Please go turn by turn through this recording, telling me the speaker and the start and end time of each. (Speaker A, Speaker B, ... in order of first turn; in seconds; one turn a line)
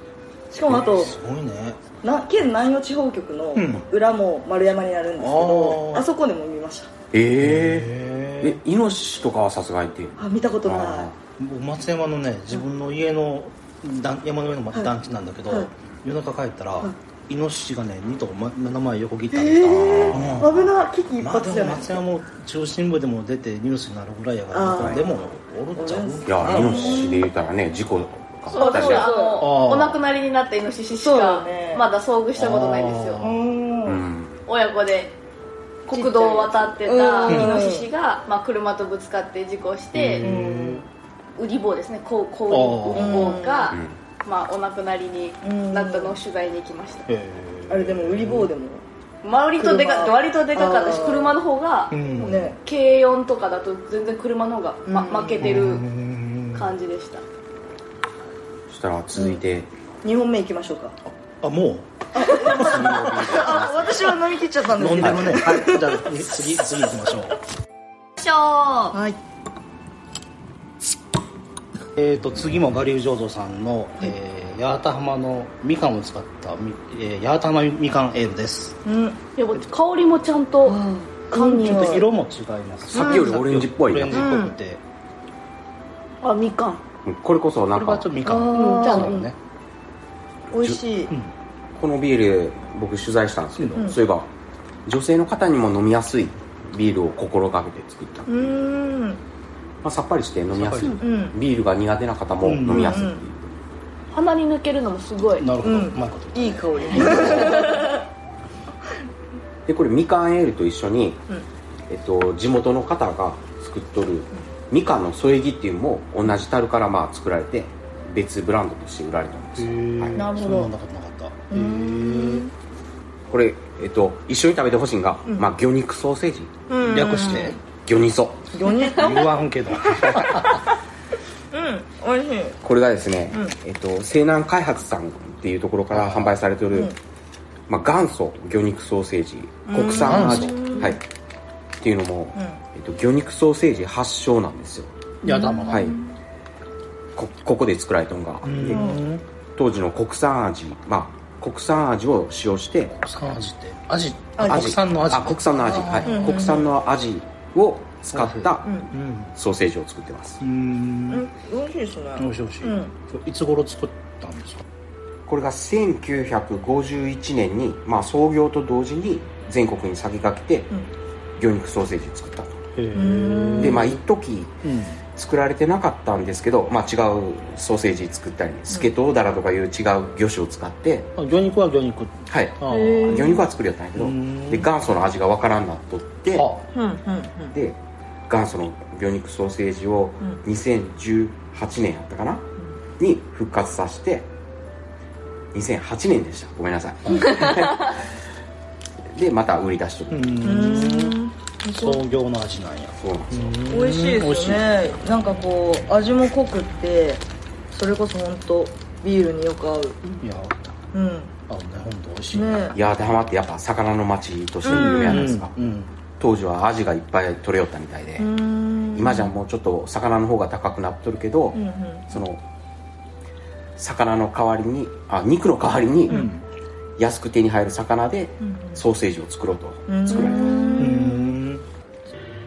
Speaker A: 0.5-1.1
Speaker B: 0.7-1.8
Speaker A: 2.0-6.9
Speaker B: 3.5-3.9
Speaker B: 5.2-6.1
Speaker C: 7.1-11.2
Speaker B: 7.4-8.6
Speaker A: 10.2-11.1
Speaker B: 11.4-27.2
Speaker A: 19.3-22.0
Speaker C: 19.6-20.5
Speaker A: 24.5-25.2
Speaker C: 24.8-25.0
Speaker A: 25.8-27.3
Speaker C: 26.3-29.1
Speaker A: 28.5-29.5
Speaker D: 28.5-33.2
Speaker B: 29.4-30.0
Speaker A: 31.0-31.9
Speaker B: 32.3-33.4
Speaker A: 33.2-34.0
Speaker C: 33.9-34.4
Speaker D: 34.5-35.1
Speaker D: 35.9-40.3
Speaker A: 35.9-37.9
Speaker B: 37.2-37.7
Speaker B: 39.9-40.9
Speaker A: 40.2-40.9
Speaker D: 41.4-47.1
Speaker B: 42.5-43.4
Speaker A: 42.9-43.8
Speaker C: 43.7-44.0
Speaker A: 45.4-46.2
Speaker B: 47.1-48.5
Speaker A: 47.7-48.8
Speaker D: 49.2-55.9
Speaker A: 49.6-51.4
Speaker B: 51.9-52.5
Speaker A: 52.2-52.6
Speaker A: 54.9-55.6
Speaker B: 55.4-56.7
Speaker D: 56.5-57.2
Speaker C: 58.7-59.7
Speaker A: 59.1-59.4
Speaker A: 60.0-61.0
Speaker B: 61.1-63.2
Speaker A: 62.1-65.9
Speaker C: 62.5-64.1
Speaker B: 64.7-67.4
Speaker C: 65.0-65.3
Speaker A: 68.4-69.2
Speaker B: 71.9-78.8
Speaker A: 78.8-79.2
Speaker D: 79.4-80.8
Speaker A: 80.6-82.0
Speaker D: 81.3-82.0
Speaker B: 81.6-84.8
Speaker C: 82.9-84.3
Speaker A: 83.0-83.3
Speaker A: 84.1-84.5
Speaker D: 86.2-86.8
Speaker C: 87.0-88.1
Speaker B: 87.7-89.3
Speaker A: 88.2-89.2
Speaker D: 88.5-89.3
Speaker A: 90.5-91.1
Speaker C: 90.5-90.8
Speaker C: 91.7-94.3
Speaker B: 93.6-93.9
Speaker C: 94.8-98.6
Speaker A: 98.3-99.2
Speaker C: 99.8-103.5
Speaker B: 100.5-101.0
Speaker A: 101.0-101.4
Speaker B: 102.4-103.1
Speaker A: 102.7-103.2
Speaker D: 104.1-105.5
Speaker B: 105.4-107.7
Speaker A: 105.6-108.0
Speaker D: 106.9-107.9
Speaker C: 107.0-107.6
Speaker C: 109.7-111.2
Speaker C: 111.9-120.2
Speaker B: 119.5-122.5
Speaker D: 120.2-120.7
Speaker A: 121.5-122.5
Speaker C: 123.3-126.5
Speaker A: 126.7-127.6
Speaker B: 126.8-127.6
Speaker C: 127.8-128.5
Speaker A: 128.5-129.4
Speaker B: 128.9-130.6
Speaker A: 130.0-130.5
Speaker A: 131.5-132.6
Speaker C: 132.6-136.9
Speaker B: 135.9-136.4
Speaker C: 137.7-141.0
Speaker A: 139.7-141.0
Speaker B: 139.9-140.9
Speaker C: 141.8-144.9
Speaker A: 142.3-142.6
Speaker B: 145.2-145.9
Speaker A: 145.2-146.1
Speaker C: 145.7-146.0
Speaker C: 147.1-149.0
Speaker B: 148.4-149.2
Speaker A: 148.7-149.0
Speaker C: 149.6-152.9
Speaker B: 152.9-156.5
Speaker A: 154.4-154.7
Speaker C: 154.4-160.4
Speaker A: 155.8-156.7
Speaker B: 158.1-159.3
Speaker A: 158.6-158.9
Speaker B: 160.4-161.3
Speaker A: 161.1-162.9
Speaker B: 162.2-164.6
Speaker C: 165.3-170.7
Speaker C: 171.4-172.6
Speaker B: 172.7-174.0
Speaker A: 172.9-173.9
Speaker C: 173.6-174.6
Speaker B: 174.6-175.0
Speaker C: 175.1-181.1
Speaker B: 181.2-183.4
Speaker C: 182.3-186.5
Speaker D: 182.7-183.3
Speaker B: 183.9-184.7
Speaker B: 186.3-186.6
Speaker A: 186.7-187.6
Speaker C: 187.5-192.4
Speaker C: 193.0-194.3
Speaker C: 195.5-198.0
Speaker B: 197.1-197.4
Speaker C: 199.1-200.8
Speaker B: 200.1-201.2
Speaker A: 200.4-202.0
Speaker B: 201.7-204.7
Speaker C: 203.0-203.6
Speaker A: 203.7-210.0
Speaker B: 210.2-210.8
Speaker A: 210.9-211.3
Speaker B: 211.5-212.9
Speaker A: 212.3-212.8
Speaker C: 212.7-215.5
Speaker A: 214.6-215.3
Speaker B: 214.7-215.9
Speaker C: 216.2-218.3
Speaker A: 218.2-219.3
Speaker C: 218.9-222.4
Speaker A: 221.5-222.1
Speaker C: 223.8-226.2
Speaker B: 226.1-226.4
Speaker C: 227.0-230.6
Speaker A: 228.4-228.8
Speaker A: 229.9-231.3
Speaker D: 230.1-231.0
Speaker B: 230.8-231.6